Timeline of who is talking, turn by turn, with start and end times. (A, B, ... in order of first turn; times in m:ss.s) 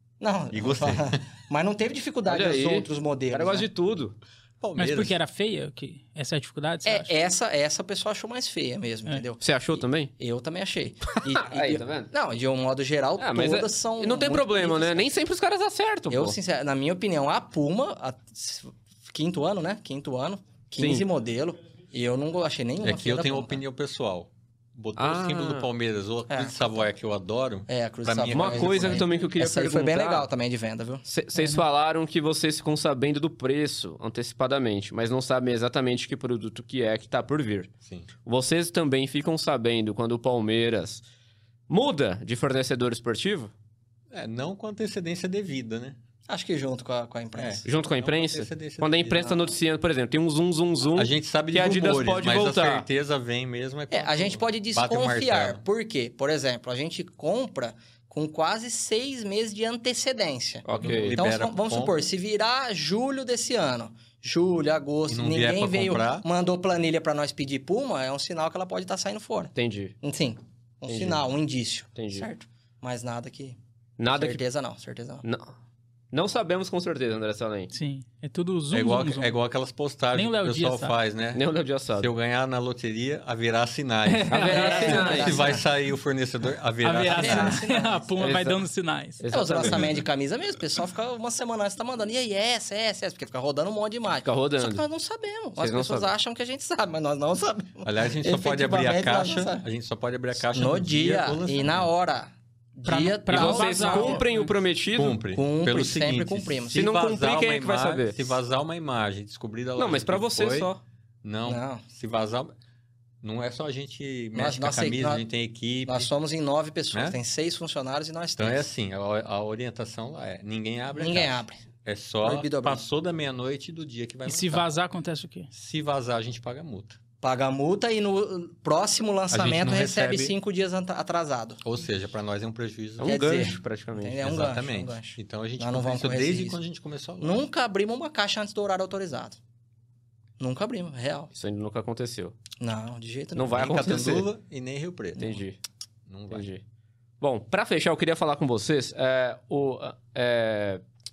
0:00.2-0:03.7 A
0:00.5-0:01.2 B
0:02.3-0:04.2 C
0:04.6-0:05.2 B
0:04.8-0:07.1 D
0:06.8-0:15.1 A
0:09.4-0:10.1 C
0:11.2-0:12.1 C
0:13.2-0:16.4 C
0:16.1-0:23.6 A
0:20.8-0:21.1 C
0:22.8-0:29.1 B
0:25.0-0:25.7 C
0:26.3-0:26.9 A
0:27.7-0:31.0 A
0:28.3-0:30.3 C
0:31.0-0:37.7 C
0:38.2-0:41.0 C
0:41.7-0:43.5 C
0:44.1-0:46.0 B
0:46.3-0:47.6 A
0:47.4-0:49.4 B
0:47.6-0:52.9 C
0:50.9-0:55.6 B
0:53.9-1:13.6 A
1:00.6-1:01.2 C
1:00.8-1:01.9 B
1:05.1-1:06.2 B
1:09.5-1:10.0 C
1:10.9-1:11.2 C
1:11.9-1:12.3 C
1:14.0-1:14.4 C
1:14.1-1:15.2 A
1:15.2-1:15.5 C
1:16.1-1:17.7 C
1:17.7-1:19.3 D
1:18.7-1:21.4 B
1:20.1-1:21.0 D
1:21.3-1:22.1 C
1:22.0-1:27.7 B
1:24.0-1:25.3 D
1:24.3-1:25.4 C
1:24.4-1:25.6 A
1:26.8-1:29.2 D
1:27.1-1:28.2 A
1:28.2-1:28.6 C
1:29.2-1:30.0 C
1:29.3-1:39.6 A
1:34.2-1:34.8 C
1:35.6-1:36.1 C
1:37.8-1:41.9 B
1:40.4-1:44.2 A
1:42.8-1:44.5 D
1:43.3-1:45.2 C
1:44.9-1:50.7 B
1:45.3-1:46.9 A
1:46.7-1:48.4 C
1:49.8-1:50.8 C
1:51.2-1:52.5 B
1:51.5-1:51.8 A
1:53.2-1:56.1 B
1:54.3-1:55.2 A
1:55.8-1:58.7 A
1:58.4-2:04.7 B
2:00.9-2:01.6 A
2:02.2-2:02.8 A
2:04.3-2:05.5 D
2:05.5-2:07.0 B
2:07.2-2:11.6 A
2:09.3-2:10.3 B
2:11.6-2:13.2 B
2:13.0-2:14.3 C
2:13.0-2:16.6 A
2:14.2-2:17.4 B
2:17.2-2:19.4 A
2:20.4-2:21.3 A
2:21.3-2:22.4 C
2:22.6-2:23.7 A
2:23.3-2:24.3 C
2:23.5-2:25.3 B
2:25.2-2:25.6 C
2:26.1-2:26.4 B
2:26.3-2:26.6 C
2:27.2-2:30.8 C